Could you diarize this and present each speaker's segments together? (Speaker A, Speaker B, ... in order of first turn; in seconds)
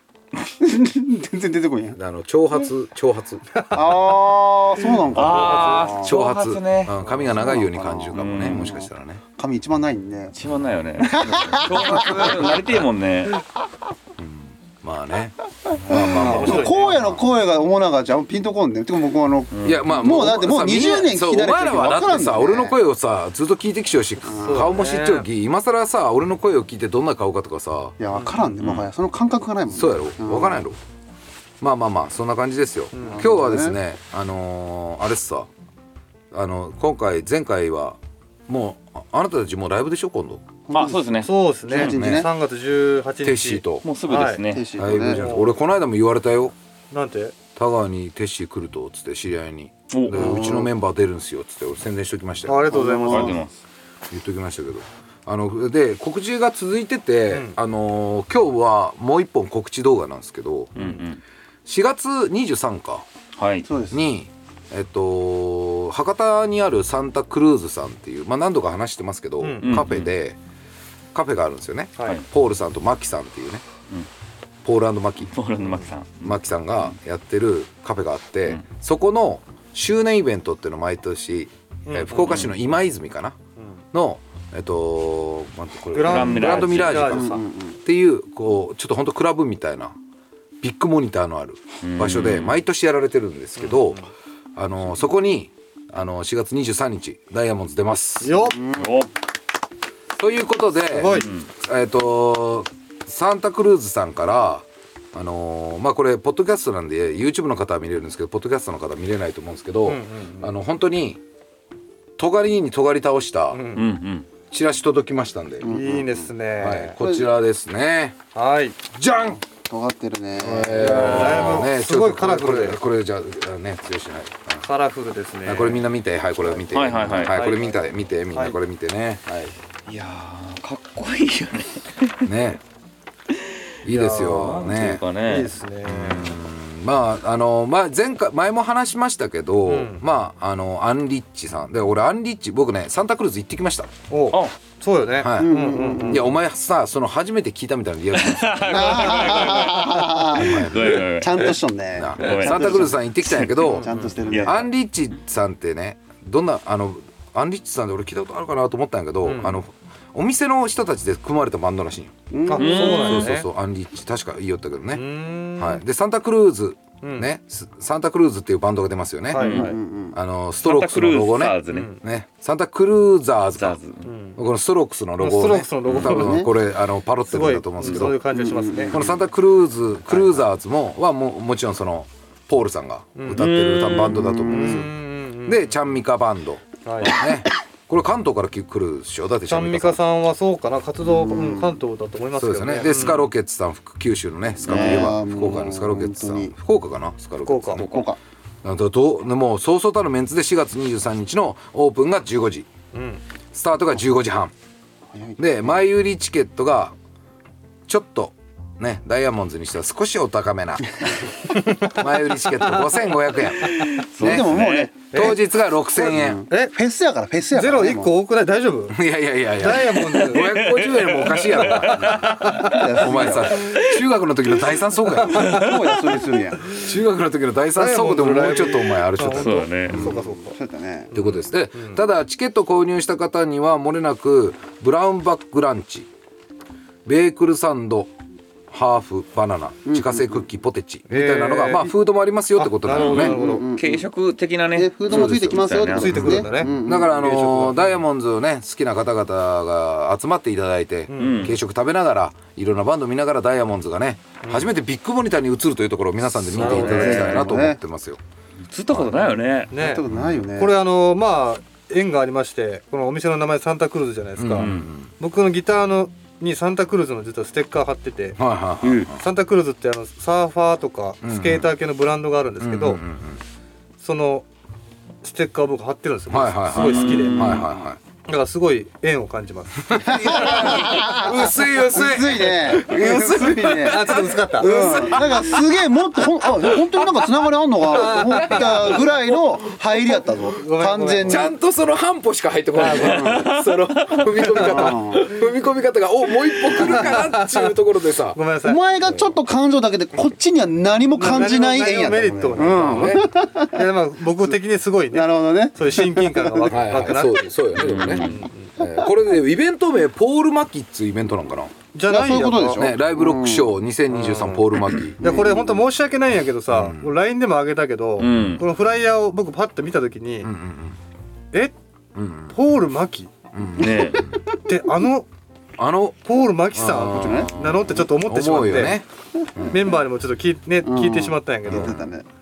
Speaker A: 0.6-2.0, 3.7-6.2, 7.2-10.3, 11.0-12.7, 15.9-22.8, 24.3-24.8, 28.0-30.7, 33.0-33.8, 40.7-41.0, 41.7-42.3, 44.5-45.2, 50.1-50.7, 52.7-53.4, 63.6-64.0, 87.1-87.8, 98.5-98.9, 115.6-116.3, 117.0-117.2, 119.4-121.6, 145.4-146.3, 148.7-154.7, 162.3-162.9, 169.5-170.2, 176.1-176.5, 178.2-179.0, 184.0-184.9, 191.0-191.8, 194.6-196.5, 197.8-198.2, 205.1-205.8, 214.2-215.3, 216.0-218.1, 222.5-223.7, 225.4-226.6, 229.9-231.1, 239.8-240.4, 243.2-244.1, 244.8-247.1, 256.6-257.8, 259.7-260.8, 280.0-291.5, 292.9-293.5, 294.5-295.3, 298.6-303.9, 305.1-306.8, 312.0-313.7, 315.2-315.8, 327.1-327.5, 330.8-332.2
Speaker B: 2.0-3.5, 6.0-9.2, 14.2-17.2, 19.6-28.0, 29.7-30.8, 31.6-35.5, 36.3-40.4, 41.8-42.3, 43.2-43.9, 44.8-46.5, 47.6-52.7, 54.1-60.7, 61.7-63.1, 63.9-70.4, 71.1-73.7, 74.6-75.3, 76.2-83.3, 83.9-89.9, 90.6-94.0, 94.6-98.5, 100.2-111.2, 112.2-113.6, 114.5-115.7, 116.5-118.2, 118.9-119.4, 120.4-124.7, 125.4-129.5, 132.2-132.6, 133.8-135.0, 135.8-143.9, 145.2-148.9, 150.3-151.1, 152.0-153.9, 154.4-162.1, 162.8-169.6, 170.1-173.8, 174.4-178.2, 178.9-190.0, 192.4-197.9, 198.6-202.7, 203.5-204.5, 205.4-206.9, 207.9-211.0, 211.8-214.6, 215.1-216.4, 218.9-222.3, 223.0-225.6, 226.7-230.2, 231.1-236.1, 237.1-238.1, 238.7-243.3, 245.1-245.6, 246.1-258.2, 260.1-260.4, 264.4-265.1, 268.4-269.2, 271.2-271.7, 272.6-273.4, 276.3-278.0, 279.9-285.7, 286.6-287.1, 287.9-289.8, 291.2-298.4, 302.6-303.3, 306.7-311.7, 312.8-315.2, 316.7-317.1, 320.4-320.9, 322.1-322.6, 323.5-324.4, 325.8-329.8, 331.7-331.9
Speaker C: 3.6-3.9, 7.0-7.3, 16.0-17.0, 24.3-25.3, 28.1-28.5, 32.9-33.3, 41.2-44.4, 45.1-45.5, 46.9-47.4, 52.5-53.4, 57.3-57.6, 60.8-61.0, 69.4-69.8, 81.9-82.5, 85.9-87.4, 93.6-94.1, 98.2-98.6, 100.9-101.3, 109.8-110.5, 113.5-113.8, 115.7-117.0, 118.3-118.8, 120.8-122.8, 124.6-125.8, 127.2-127.8, 128.3-128.6, 133.9-136.3, 139.7-140.0, 144.1-146.3, 153.8-154.2, 159.2-159.6, 162.5-163.5, 164.9-165.8, 167.0-167.3, 169.3-169.8, 171.7-172.0, 174.0-174.4, 175.2-176.5, 177.3-179.2, 180.1-180.4, 183.2-183.4, 184.5-185.8, 186.8-187.2, 189.5-193.3, 197.4-197.9, 202.9-203.2, 215.1-215.4, 216.0-216.7, 217.5-219.0, 219.6-220.7, 221.7-222.9, 225.2-225.7, 227.8-230.6, 231.1-232.0, 241.1-241.9, 242.6-243.7, 245.9-248.0, 251.1-251.6, 254.4-254.7, 256.4-257.5, 259.7-268.4, 269.2-273.0, 274.0-274.4, 275.2-277.6, 278.3-280.9, 283.8-285.0, 287.9-289.0, 290.6-291.5, 292.8-293.4, 296.8-297.7, 298.3-298.8, 301.2-308.7, 311.9-312.9, 314.1-314.7, 315.2-320.5, 322.5-323.3, 324.7-325.3, 326.2-329.0, 329.7-332.1
Speaker D: 5.1-6.9, 8.1-8.8, 10.3-13.4, 15.9-16.6, 19.5-19.9, 28.6-28.9, 40.7-42.0, 43.8-44.7, 49.9-50.5, 53.0-53.5, 60.8-61.2, 63.4-63.7, 69.6-70.1, 75.3-76.4, 82.2-82.5, 86.0-87.2, 91.8-92.6, 98.6-99.1, 101.0-101.5, 113.7-114.3, 126.7-127.5, 129.9-132.2, 134.1-136.2, 148.1-151.6, 152.2-153.3, 154.2-154.6, 162.5-163.4, 169.3-169.8, 170.6-171.9, 173.6-174.1, 175.8-176.1, 183.3-184.4, 197.8-198.1, 213.7-214.9, 220.1-223.0, 223.5-224.0, 225.3-226.1, 229.2-230.1, 242.9-246.7, 251.1-251.6, 256.6-257.4, 258.7-259.7, 264.6-264.9, 268.8-269.1, 276.7-277.6, 293.2-294.3, 307.8-308.5, 318.2-318.6, 323.8-324.3